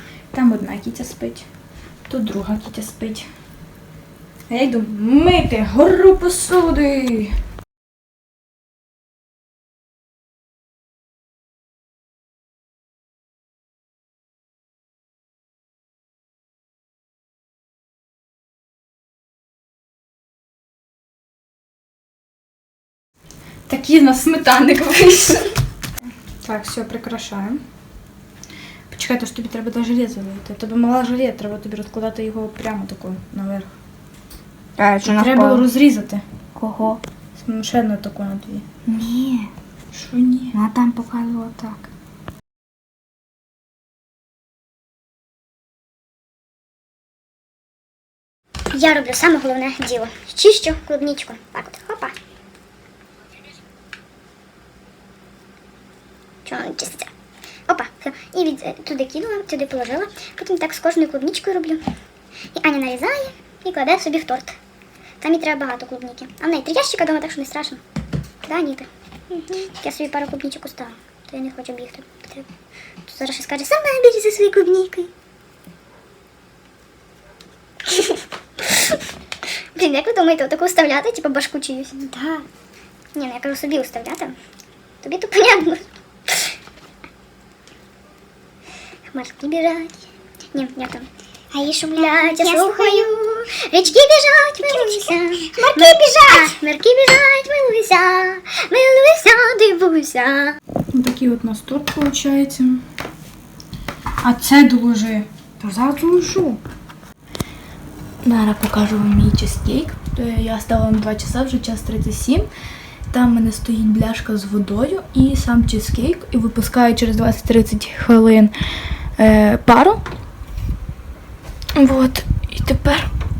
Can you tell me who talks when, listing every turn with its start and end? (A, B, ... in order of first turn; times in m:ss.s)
0:00.3-0:01.5 A
0:02.1-0:03.3 A
0:04.5-0:07.4 A
0:23.7-0:25.6 A
0:26.4-0:27.6 A
0:28.9-0:33.7 A
0:34.8-0:35.7 B
0:35.0-0:36.2 A
0:36.6-0:37.0 B
0:37.4-0:38.7 A
0:38.9-0:39.5 B
0:39.9-0:40.6 A
0:40.5-0:41.9 B
0:48.7-0:52.1 C
0:56.5-0:57.1 C
0:57.7-1:01.8 C
1:02.6-1:04.6 C
1:05.2-1:07.8 C
1:08.4-1:12.5 C
1:13.1-1:15.1 C
1:17.9-1:19.0 C
1:19.8-1:22.1 C
1:23.2-1:24.4 C
1:25.0-1:26.5 C
1:29.1-1:30.0 C
1:30.5-1:40.6 C
1:35.7-1:36.5 B
1:40.9-1:42.8 A
1:44.2-1:46.6 A
1:48.2-1:52.5 A
1:53.1-1:58.5 A
1:59.2-2:00.0 A
2:01.8-2:03.1 A